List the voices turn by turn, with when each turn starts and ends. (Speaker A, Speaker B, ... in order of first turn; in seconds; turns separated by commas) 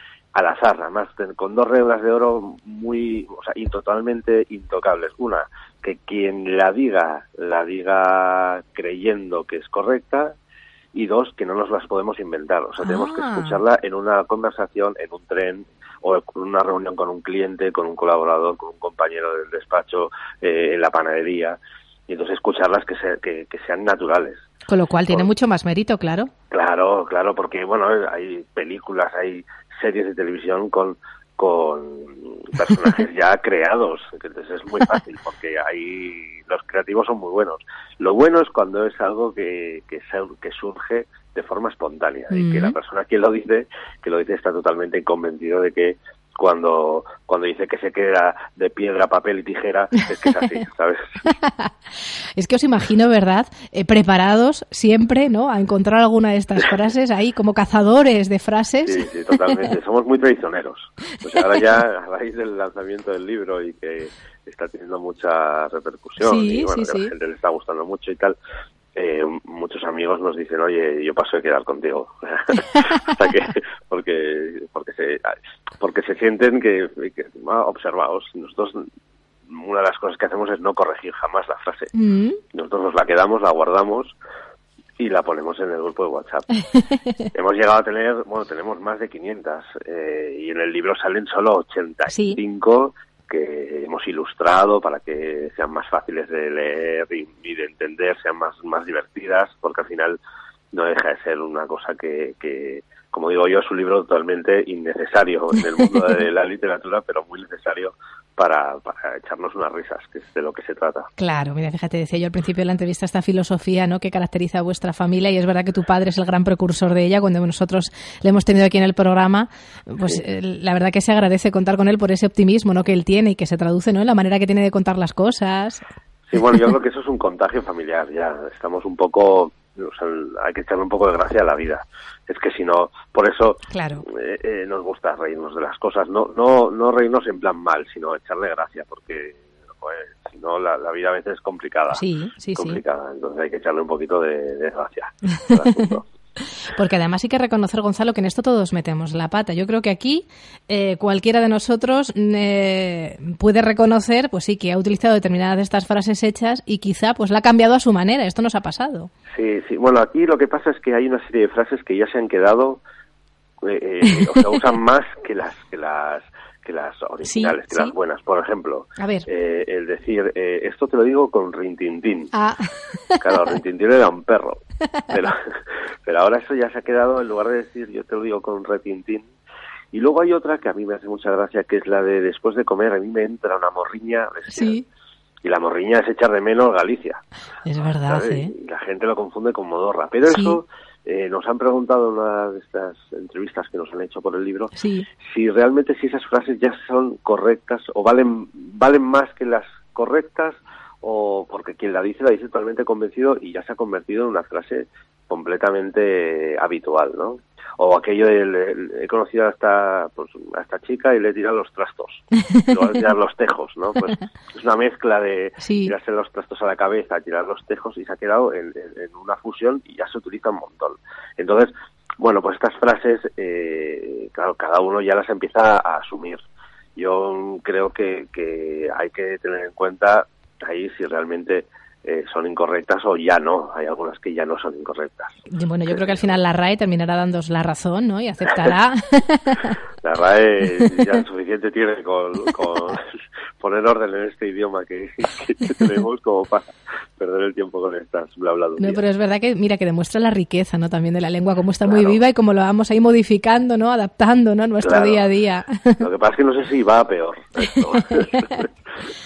Speaker A: 0.3-10.3, Speaker A: 10.9-24.5, Speaker B: 12.8-13.6, Speaker B: 24.7-26.3, Speaker A: 26.5-51.2, Speaker B: 42.3-42.8, Speaker B: 51.2-51.7, Speaker B: 52.4-59.7, Speaker A: 58.8-68.4, Speaker B: 66.2-67.1, Speaker A: 69.0-78.9, Speaker A: 79.5-81.9, Speaker B: 81.9-82.4, Speaker A: 82.5-84.2, Speaker A: 85.0-86.5, Speaker B: 86.8-87.2, Speaker A: 87.3-100.2, Speaker B: 92.1-92.4, Speaker A: 100.7-111.1, Speaker B: 111.2-125.8, Speaker A: 126.3-142.0, Speaker B: 133.7-134.1, Speaker B: 141.9-142.8, Speaker A: 142.6-146.1, Speaker B: 146.7-159.1, Speaker A: 159.3-162.8, Speaker A: 163.7-172.3, Speaker B: 164.1-164.4, Speaker B: 167.2-167.9, Speaker B: 169.0-169.3, Speaker B: 172.3-173.3, Speaker A: 173.2-175.5, Speaker A: 176.1-179.3, Speaker A: 179.9-184.8, Speaker B: 184.5-184.8, Speaker A: 185.4-187.2, Speaker B: 187.6-188.5, Speaker A: 188.1-194.7, Speaker B: 190.3-190.6, Speaker B: 194.8-195.1, Speaker A: 195.2-226.4, Speaker B: 212.5-212.8, Speaker B: 215.6-215.9, Speaker A: 227.0-235.4, Speaker B: 235.5-239.8, Speaker A: 235.9-236.3, Speaker A: 240.0-243.0, Speaker A: 243.6-249.0, Speaker B: 248.8-256.1, Speaker A: 251.9-252.2, Speaker A: 254.8-255.3, Speaker A: 256.0-258.7